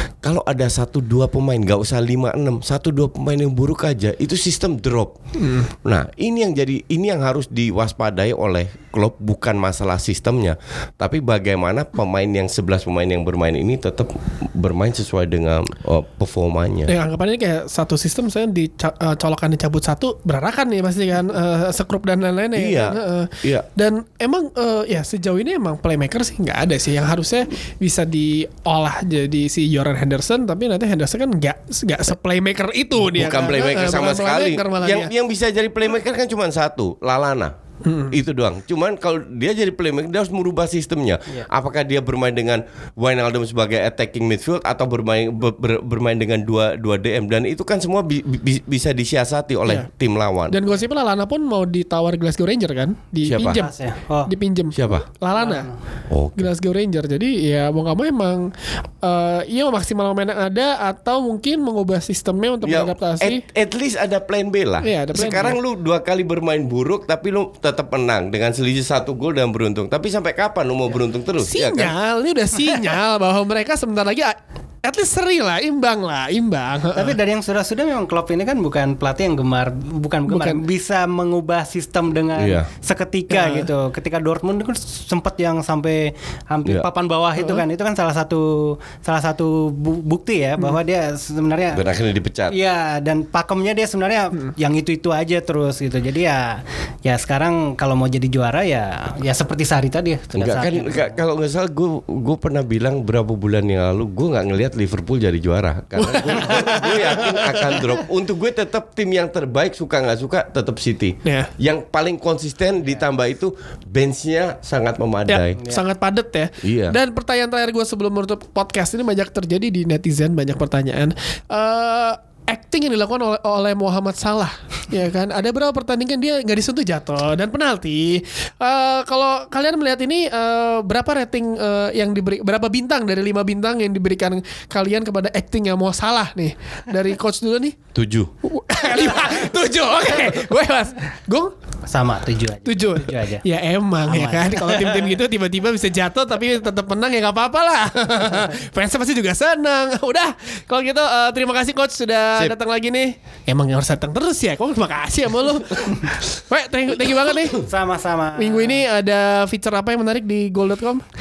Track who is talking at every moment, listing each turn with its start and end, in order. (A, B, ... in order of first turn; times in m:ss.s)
0:00.2-0:05.1 A
0:05.4-0:05.7 B
0:05.8-0:16.9 A
0:16.9-0:35.1 B
0:22.6-0:23.7 A
0:33.0-0:37.5 A
0:37.8-0:38.2 B
0:38.1-0:50.6 A
0:50.5-0:55.7 B
0:53.2-0:53.6 A
0:53.5-0:54.3 C
0:54.7-0:55.0 A
0:55.4-0:55.7 C
0:56.1-0:56.5 A
0:56.4-0:58.5 B
0:59.0-1:03.4 B
1:02.6-1:11.9 A
1:04.8-1:05.6 B
1:11.4-1:17.2 B
1:17.0-1:31.8 C
1:20.3-1:20.6 B
1:22.4-1:22.7 A
1:23.3-1:23.7 B
1:27.4-1:27.6 B
1:31.7-1:32.6 A
1:32.5-1:41.2 C
1:40.4-1:55.6 A
1:46.0-1:47.8 B
1:51.2-1:51.5 B
1:55.3-2:17.8 B
1:56.6-1:57.0 A
2:18.0-2:18.3 A
2:18.4-2:21.5 B
2:21.9-2:23.4 C
2:22.6-2:37.6 B
2:24.1-2:25.2 C
2:37.6-2:38.8 C
2:38.4-2:41.0 B